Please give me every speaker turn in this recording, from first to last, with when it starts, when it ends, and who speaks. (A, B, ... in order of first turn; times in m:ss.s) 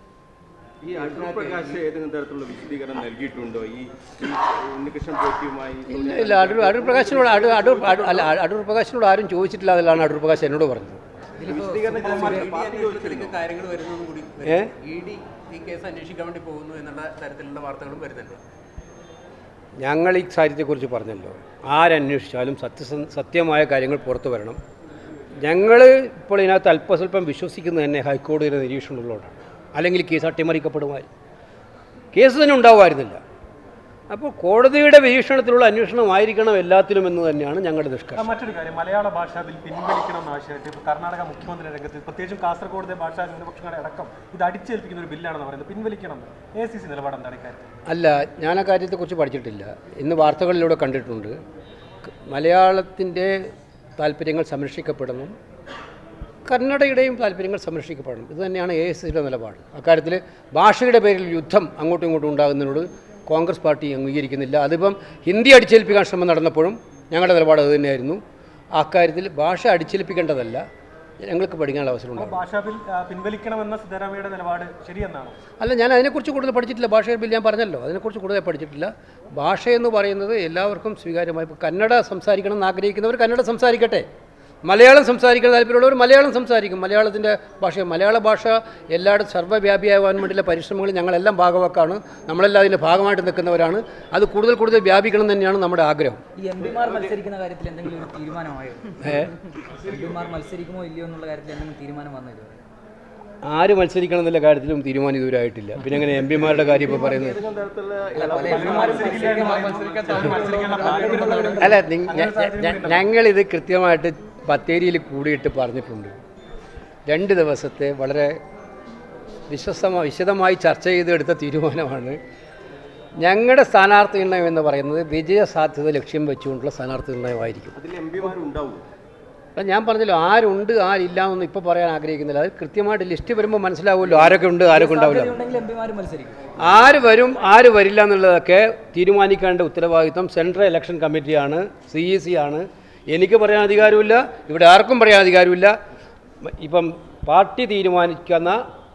0:00.8-0:08.3 A
0:01.0-0:01.8 B
0:05.9-0:11.0 C
0:11.4-0:13.4 A
0:11.4-0:18.4 B
0:12.0-0:12.4 D
0:14.4-0:14.7 C
0:19.8-0:24.6 C
0:25.4-0:31.1 C
0:32.1-0:33.2 C
0:34.1-0:38.3 C
0:38.2-0:47.7 D
0:47.9-0:51.3 C
0:52.1-0:53.4 C
0:54.0-0:55.3 C
0:56.4-1:08.2 C
1:08.8-1:10.6 C
1:11.2-1:12.4 C
1:12.2-1:15.4 D
1:15.6-1:24.1 C
1:24.6-1:36.2 C
1:36.4-1:39.2 E
1:36.8-1:37.1 A
1:39.0-1:39.3 C
1:39.8-1:42.6 E
1:43.4-1:47.4 C
1:46.3-1:50.1 A
1:48.1-1:51.6 E
1:48.3-1:53.0 D
1:51.6-1:56.2 C
1:57.1-1:58.4 C
1:59.5-2:02.2 C
2:03.2-2:07.7 C
2:07.7-2:08.8 A
2:09.6-2:15.4 C
2:14.7-2:16.5 E
2:16.6-2:25.7 C
2:26.4-2:28.6 C